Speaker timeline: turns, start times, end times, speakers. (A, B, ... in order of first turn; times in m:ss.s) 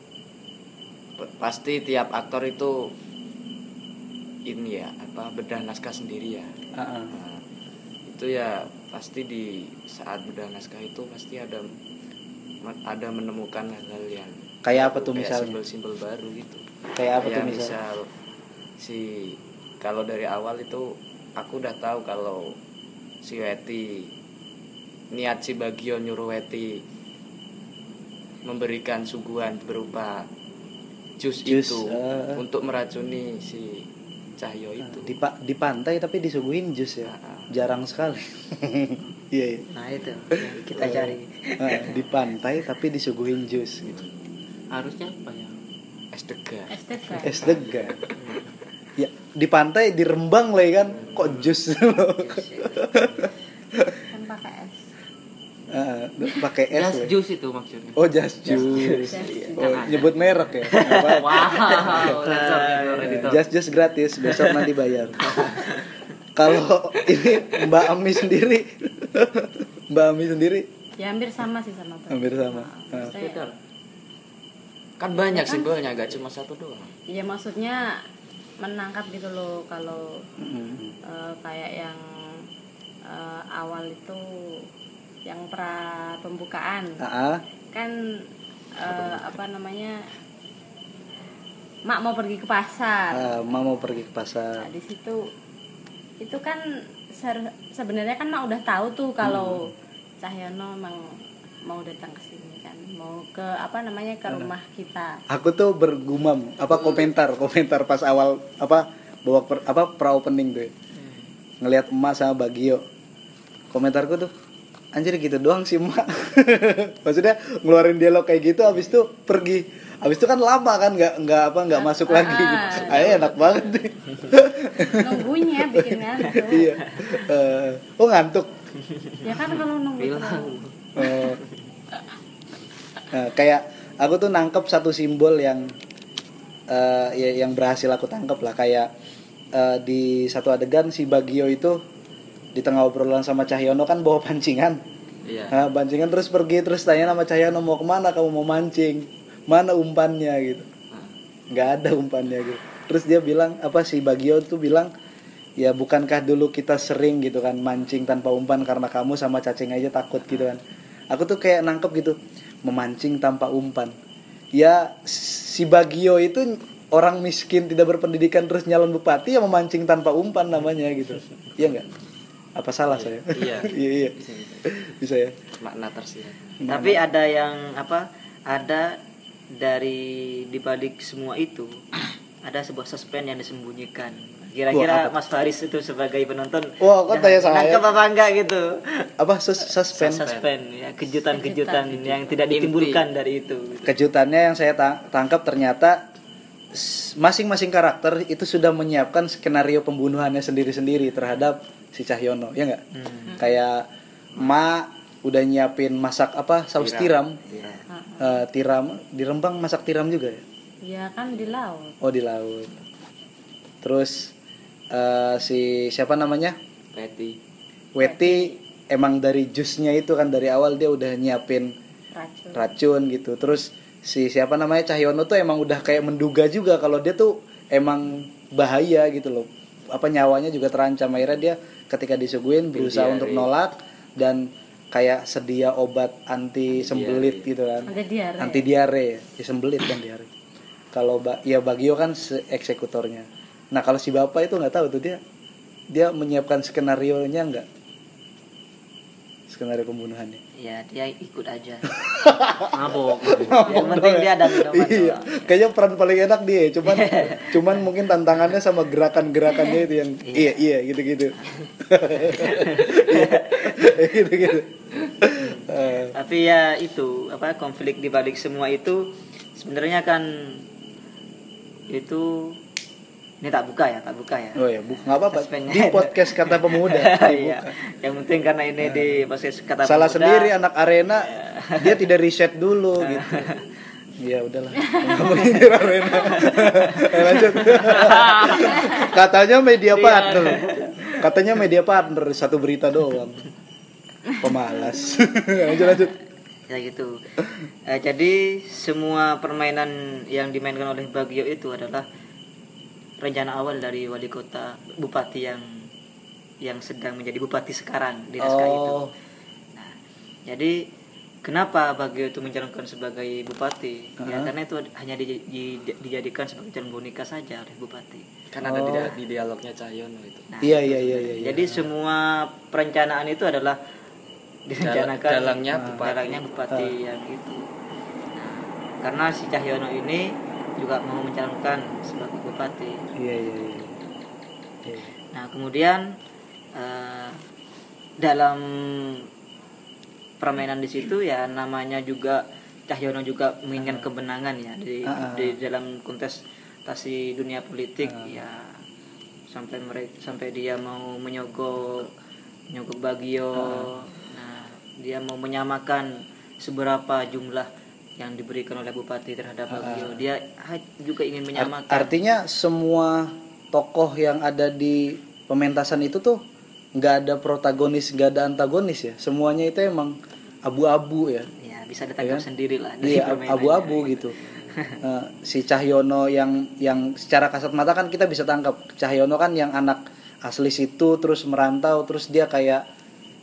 0:01.2-0:02.9 A
0:04.5-0:06.5 A
0:06.8-0:07.1 B
0:07.1-0:07.4 A
0:08.1-0:11.7 A
0:12.6-0:16.6 A
0:14.7-0:15.6 B
0:17.0-0:17.8 B
0:17.2-0:18.1 A
0:18.8-0:22.6 A
0:23.2-0:24.1 A
0:25.1-0:26.8 A
0:28.4-0:30.3 A
0:31.2-0:35.2 A
0:31.5-0:32.4 B
0:34.8-0:39.7 B
0:37.1-0:37.6 A
0:39.7-0:42.0 C
0:40.8-0:44.0 B
0:44.7-0:45.6 D
0:46.1-0:48.4 A
0:46.7-0:47.5 E
0:47.2-0:48.0 B
0:48.2-0:48.5 C
0:49.0-0:53.9 B
0:50.9-0:51.5 A
0:52.0-0:52.9 C
0:54.1-0:54.9 E
0:55.7-0:57.1 B
0:56.7-1:03.5 D
0:58.0-1:02.2 B
0:58.5-0:59.6 C
0:59.1-0:59.6 E
1:00.7-1:03.2 C
1:03.0-1:05.4 B
1:04.2-1:04.7 C
1:05.2-1:05.9 C
1:06.4-1:10.7 B
1:11.0-1:13.4 E
1:12.1-1:13.1 B
1:13.0-1:13.5 D
1:15.0-1:16.9 A
1:15.3-1:15.7 E
1:17.1-1:18.0 E
1:18.6-1:20.2 E
1:20.4-1:20.9 B
1:21.1-1:22.0 E
1:23.1-1:24.2 E
1:25.2-1:27.0 E
1:27.0-1:27.4 B
1:28.8-1:30.0 E
1:28.9-1:29.3 B
1:31.9-1:33.4 E
1:33.1-1:34.6 B
1:34.6-1:35.2 E
1:36.2-1:36.6 E
1:37.1-1:39.7 E
1:39.2-1:39.7 B
1:40.2-1:41.0 E
1:41.7-1:45.2 E
1:45.3-1:50.7 B
1:51.6-1:52.8 B
1:53.7-1:54.3 B
1:54.9-2:08.5 B
2:01.8-2:03.3 E
2:02.8-2:03.4 A
2:04.9-2:06.8 E
2:09.2-2:10.6 E
2:09.5-2:10.7 D
2:11.0-2:11.4 B
2:13.1-2:15.7 B
2:16.7-2:18.9 B
2:19.5-2:21.8 B
2:22.6-2:24.8 B
2:25.3-2:25.6 A
2:25.5-2:30.7 B
2:31.5-2:34.9 B
2:35.6-2:44.0 B
2:44.6-2:51.8 B
2:51.6-2:52.0 A
2:52.6-2:55.4 B
2:52.9-2:54.6 A
2:55.6-2:56.6 A
2:56.6-2:57.0 B
2:56.7-2:59.0 C
2:59.5-3:01.9 C
3:02.4-3:09.1 C
3:04.7-3:05.1 B
3:06.8-3:07.9 B
3:09.2-3:10.3 B
3:09.9-3:13.9 C
3:10.0-3:10.5 A
3:11.3-3:12.3 E
3:12.5-3:13.0 A
3:13.9-3:16.0 B
3:16.7-3:22.8 B
3:22.9-3:23.5 C
3:23.4-3:27.4 B
3:26.8-3:27.6 A
3:27.5-3:27.8 C
3:27.9-3:28.4 E
3:28.2-3:30.4 B
3:30.8-3:32.0 E
3:32.0-3:32.8 B
3:33.8-3:34.3 B
3:34.9-3:36.6 B
3:36.9-3:37.4 A
3:37.9-3:41.7 B
3:38.0-3:38.6 E
3:42.2-3:42.7 E
3:42.5-4:00.3 B
3:52.7-3:53.5 A
3:56.7-3:57.5 A
3:57.9-3:58.7 E
4:00.9-4:05.2 B
4:05.9-4:07.7 B
4:09.5-4:10.4 B
4:10.6-4:11.9 C
4:11.9-4:26.1 B
4:12.7-4:13.8 D
4:13.6-4:15.5 C
4:16.9-4:17.8 C
4:20.3-4:20.6 C
4:22.2-4:24.0 C
4:25.4-4:30.6 C
4:31.9-4:32.6 C
4:33.4-4:34.6 C
4:34.6-4:37.7 B
4:35.2-4:40.5 C
4:38.8-4:39.2 B
4:39.8-4:43.4 B
4:41.2-4:42.0 C
4:43.0-4:43.6 C
4:44.2-4:53.4 B
4:46.1-4:49.1 C
4:49.9-4:51.3 C
4:54.4-4:56.2 B
4:56.7-4:57.2 C
4:57.9-5:02.1 C
5:03.2-5:05.8 C
5:06.6-5:09.0 C
5:08.4-5:09.1 B
5:10.5-5:10.9 C
5:11.4-5:18.3 C
5:14.2-5:14.5 B
5:18.5-5:20.7 A
5:18.6-5:19.2 B
5:20.5-5:23.8 C
5:20.6-5:21.9 B
5:24.7-5:27.7 C
5:24.8-5:26.4 A
5:25.8-5:26.0 B
5:26.7-5:27.0 B
5:28.4-5:33.0 C
5:33.2-5:34.0 B
5:34.8-5:35.1 B
5:35.3-5:36.2 C
5:36.8-5:37.4 C
5:38.2-5:39.3 C
5:40.4-5:48.7 C
5:43.8-5:44.1 B
5:45.1-5:45.6 B
5:48.0-5:48.4 B
5:49.5-5:52.1 C
5:52.7-6:02.1 C
5:53.6-5:53.9 B
5:59.7-6:00.3 B
6:01.6-6:06.4 B
6:07.0-6:11.5 B
6:11.6-6:15.0 C
6:12.2-6:12.5 B
6:13.0-6:14.4 B
6:15.0-6:22.8 B